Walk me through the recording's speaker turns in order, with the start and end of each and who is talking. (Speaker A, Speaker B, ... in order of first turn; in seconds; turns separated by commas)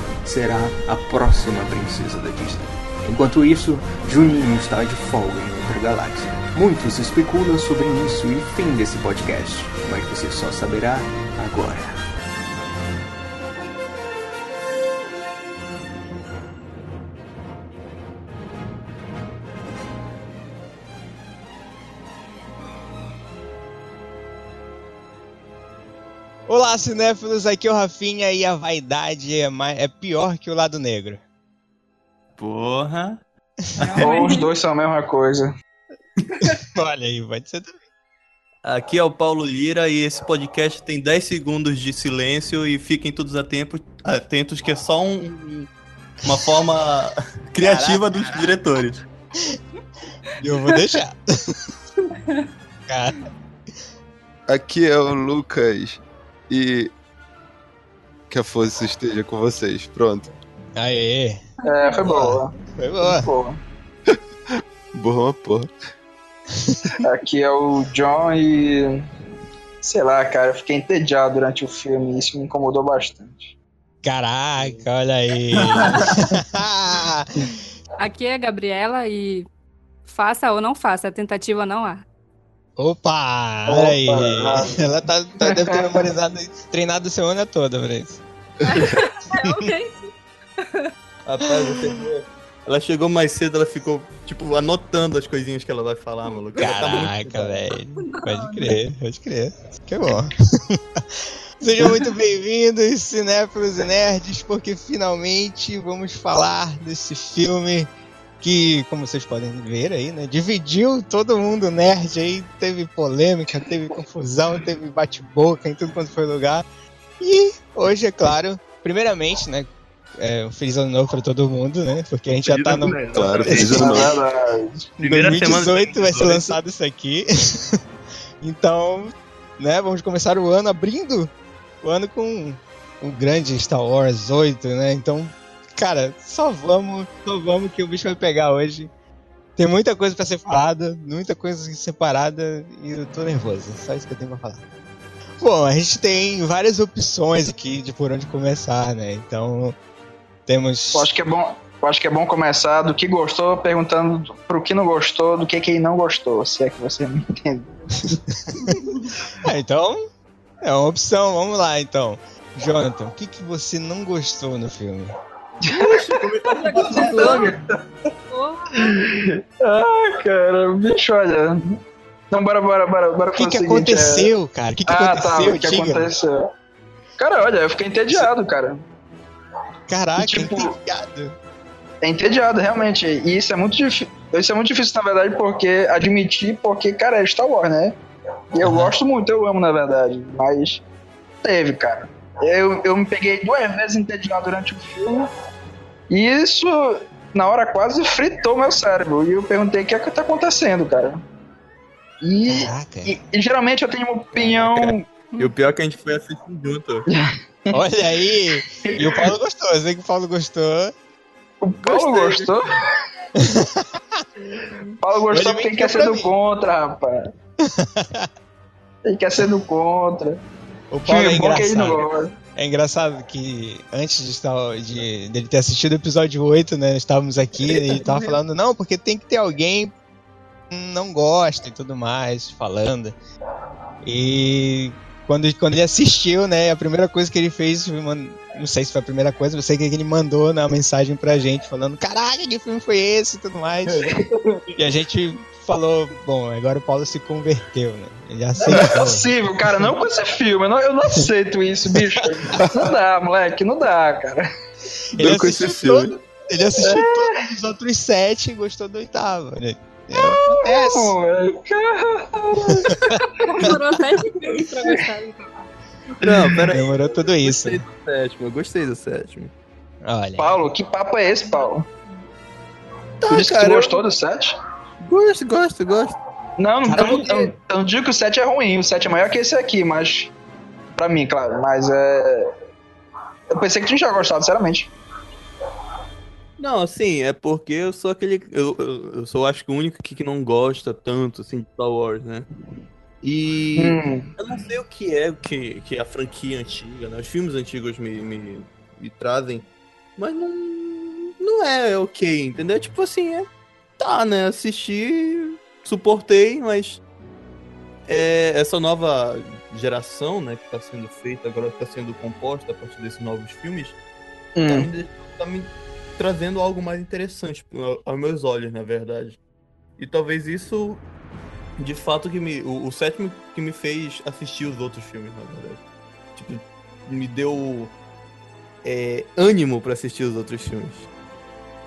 Speaker A: 0.2-12.0, Speaker B: 26.5-31.2, Speaker C: 32.4-33.2, Speaker C: 33.8-34.2, Speaker D: 33.8-34.5, Speaker E: 34.0-35.5, Speaker B: 36.7-37.8, Speaker C: 38.6-45.7, Speaker C: 46.2-49.1, Speaker B: 47.6-48.5, Speaker B: 50.4-51.2, Speaker B: 52.9-53.3, Speaker F: 54.5-56.9, Speaker F: 58.3-60.3, Speaker B: 60.8-61.4, Speaker E: 61.6-62.5, Speaker B: 62.0-63.3, Speaker E: 63.0-63.6, Speaker F: 65.0-65.7, Speaker E: 67.0-69.1, Speaker E: 69.8-73.5, Speaker B: 74.0-77.3, Speaker C: 74.6-74.9, Speaker D: 78.0-79.5, Speaker D: 80.1-82.0, Speaker B: 82.8-88.2, Speaker E: 83.7-84.7, Speaker E: 85.4-86.1, Speaker D: 88.7-90.9, Speaker C: 91.3-97.7, Speaker B: 96.6-107.9, Speaker D: 98.1-98.8, Speaker B: 108.4-116.7, Speaker B: 117.2-124.0, Speaker C: 122.5-124.0, Speaker F: 123.1-124.2, Speaker E: 123.7-124.9, Speaker C: 125.0-126.6, Speaker B: 125.0-127.8, Speaker B: 128.4-131.3, Speaker B: 131.8-138.9, Speaker B: 139.6-144.6, Speaker B: 145.4-149.8, Speaker B: 150.5-151.1, Speaker E: 150.9-158.2, Speaker B: 159.4-160.1, Speaker B: 160.6-165.1, Speaker E: 165.7-166.0, Speaker C: 165.7-167.5, Speaker D: 166.5-167.6, Speaker E: 166.7-167.7, Speaker D: 168.3-168.8, Speaker E: 168.7-171.8, Speaker E: 172.3-174.3, Speaker B: 173.4-176.1, Speaker E: 174.9-176.5, Speaker E: 177.2-178.8, Speaker B: 179.9-181.4, Speaker E: 180.2-180.7, Speaker E: 182.0-188.0, Speaker E: 188.5-190.8, Speaker B: 188.6-188.9, Speaker E: 191.4-195.2, Speaker E: 196.1-201.2, Speaker E: 202.2-205.1, Speaker B: 202.5-203.1, Speaker C: 204.3-207.1, Speaker B: 207.7-210.9, Speaker E: 208.8-209.3, Speaker E: 211.6-212.7, Speaker C: 211.8-212.6, Speaker B: 213.4-214.2, Speaker D: 214.5-214.9, Speaker E: 215.0-217.3, Speaker B: 215.3-216.3, Speaker B: 217.6-218.3, Speaker E: 219.1-220.4, Speaker B: 220.9-222.0, Speaker E: 221.1-222.3, Speaker B: 222.6-229.9, Speaker B: 230.7-233.2, Speaker B: 234.0-244.1, Speaker C: 244.3-244.7, Speaker B: 244.8-249.9, Speaker E: 248.7-254.4, Speaker B: 251.9-252.7, Speaker B: 255.2-261.1, Speaker C: 255.2-256.0, Speaker F: 255.2-256.0, Speaker E: 256.8-257.3, Speaker E: 260.2-262.9, Speaker D: 263.4-265.5, Speaker C: 266.2-269.5, Speaker B: 266.7-267.8, Speaker B: 270.1-270.6, Speaker E: 270.4-271.9, Speaker C: 273.2-274.1, Speaker E: 273.3-274.6, Speaker C: 275.1-276.1, Speaker E: 276.6-280.3, Speaker C: 276.9-277.5, Speaker E: 281.0-282.5, Speaker E: 283.5-284.9, Speaker C: 286.6-292.5, Speaker C: 293.2-299.6, Speaker E: 293.8-294.3, Speaker C: 300.2-303.5, Speaker C: 304.0-307.0, Speaker C: 308.1-314.0, Speaker E: 314.6-314.9, Speaker C: 314.7-319.4, Speaker C: 320.0-321.0, Speaker C: 321.8-325.8, Speaker C: 326.4-327.9, Speaker C: 328.8-331.1